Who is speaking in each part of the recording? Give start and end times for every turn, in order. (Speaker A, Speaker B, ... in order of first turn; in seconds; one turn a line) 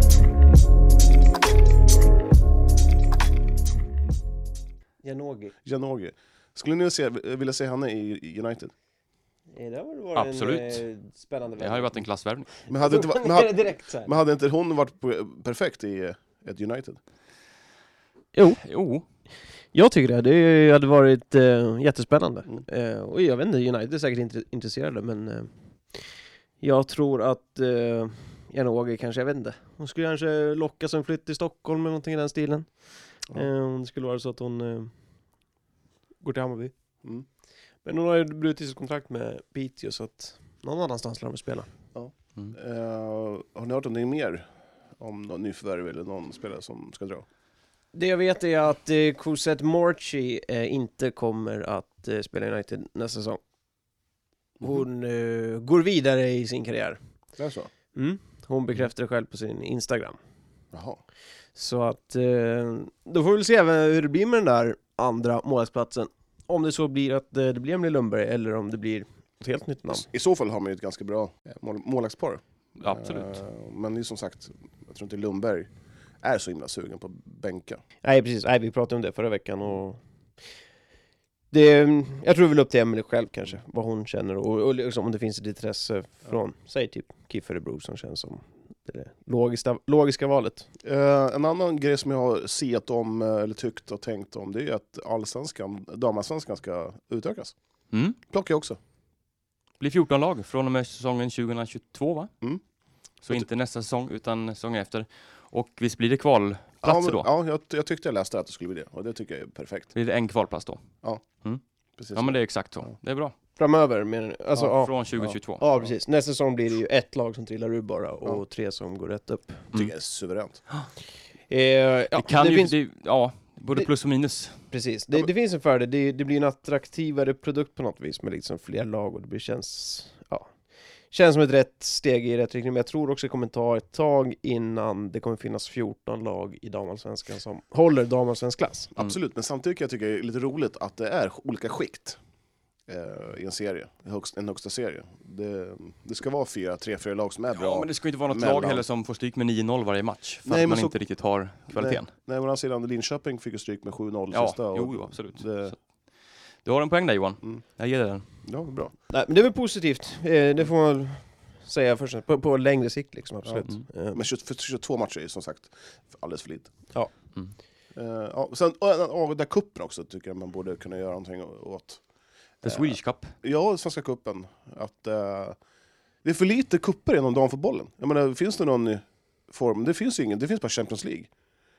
Speaker A: 5.0-5.5
Speaker B: 5.6-8.7
Speaker A: 9.5-12.0
Speaker C: 10.2-10.8
Speaker C: 11.6-12.6
Speaker B: 12.7-17.0
Speaker A: 12.8-14.1
Speaker A: 18.3-18.6
Speaker C: 18.6-19.0
Speaker A: 19.7-25.5
Speaker A: 26.6-32.7
Speaker A: 33.3-34.9
Speaker A: 36.2-36.7
Speaker A: 37.8-41.7
Speaker B: 41.9-44.5
Speaker B: 45.0-47.2
Speaker A: 47.9-53.4
Speaker A: 54.6-57.0
Speaker B: 57.4-57.7
Speaker A: 57.9-60.2
Speaker B: 60.7-61.0
Speaker A: 61.5-70.1
Speaker B: 69.9-75.7
Speaker C: 72.8-73.3
Speaker B: 76.2-77.8
Speaker A: 78.0-80.0
Speaker A: 81.5-90.7
Speaker B: 90.8-97.5
Speaker C: 97.9-98.2
Speaker B: 98.2-98.8
Speaker C: 99.8-102.3
Speaker C: 103.2-107.3
Speaker B: 106.8-109.9
Speaker C: 109.9-110.8
Speaker B: 112.0-112.4
Speaker C: 112.1-113.3
Speaker A: 113.6-114.9
Speaker C: 114.6-115.6
Speaker A: 115.6-119.7
Speaker B: 119.7-120.6
Speaker A: 121.5-122.7
Speaker C: 122.1-124.6
Speaker A: 124.7-130.5
Speaker A: 131.1-138.9
Speaker B: 138.9-142.2
Speaker B: 142.9-148.8
Speaker C: 147.5-152.1
Speaker B: 150.4-150.9
Speaker B: 151.7-155.7
Speaker C: 154.3-155.8
Speaker C: 156.6-158.2
Speaker B: 158.4-158.9
Speaker A: 159.1-164.2
Speaker B: 163.4-166.7
Speaker B: 167.9-172.0
Speaker C: 172.6-173.3
Speaker B: 172.6-175.6
Speaker B: 176.2-181.3